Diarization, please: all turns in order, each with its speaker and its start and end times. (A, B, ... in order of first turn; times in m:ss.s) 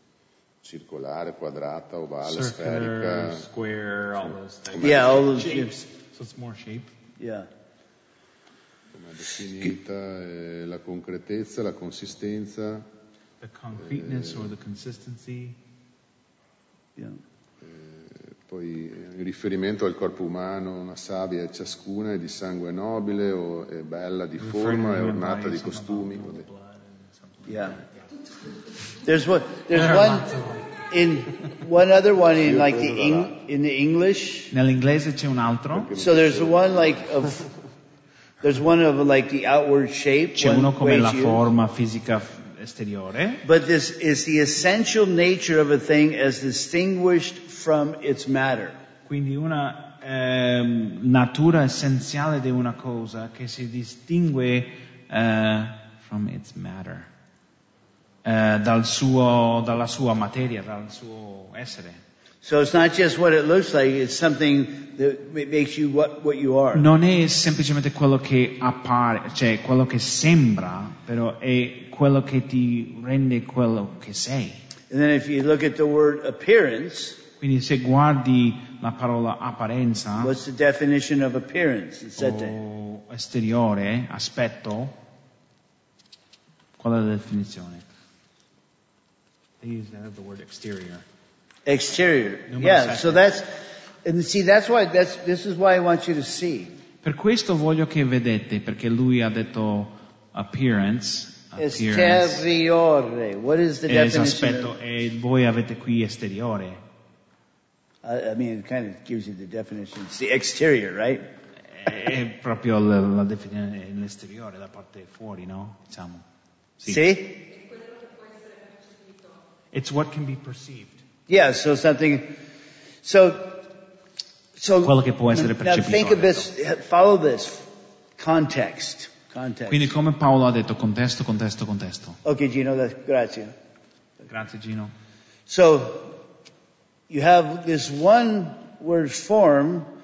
0:00.6-0:03.5 A
0:02.2-0:06.9 B
0:04.2-0:05.2 A
0:04.8-0:05.7 C
0:07.2-0:07.5 C
0:08.9-0:12.9 A
0:13.4-0:15.6 B
0:13.8-0:14.5 A
0:17.6-0:26.5 A
0:24.4-0:28.0 B
0:27.5-0:27.8 C
0:29.0-0:30.4 C
0:29.7-0:30.7 B
0:30.9-0:34.5 C
0:32.4-0:33.4 A
0:34.5-0:36.0 B
0:35.7-0:37.4 A
0:36.0-0:37.4 C
0:38.4-0:41.4 C
0:40.4-0:43.4 B
0:43.4-0:48.8 C
0:49.1-0:57.1 B
0:58.2-1:02.0 B
1:02.4-1:06.9 C
1:06.7-1:14.6 B
1:14.9-1:17.2 C
1:17.4-1:20.3 B
1:20.2-1:22.6 C
1:22.2-1:25.0 B
1:26.8-1:27.8 B
1:29.6-1:31.0 B
1:31.7-1:36.8 C
1:32.5-1:33.2 B
1:37.0-1:42.4 B
1:41.6-1:44.7 C
1:43.9-1:46.8 B
1:48.0-1:51.3 C
1:51.8-1:56.2 B
1:56.9-1:57.4 C
1:59.7-2:01.0 B
2:01.3-2:02.4 C
2:03.0-2:03.7 C
2:04.6-2:09.9 C
2:04.8-2:06.5 B
2:09.7-2:12.2 B
2:12.2-2:13.6 C
2:14.3-2:14.9 B
2:15.5-2:16.2 C
2:17.1-2:19.9 C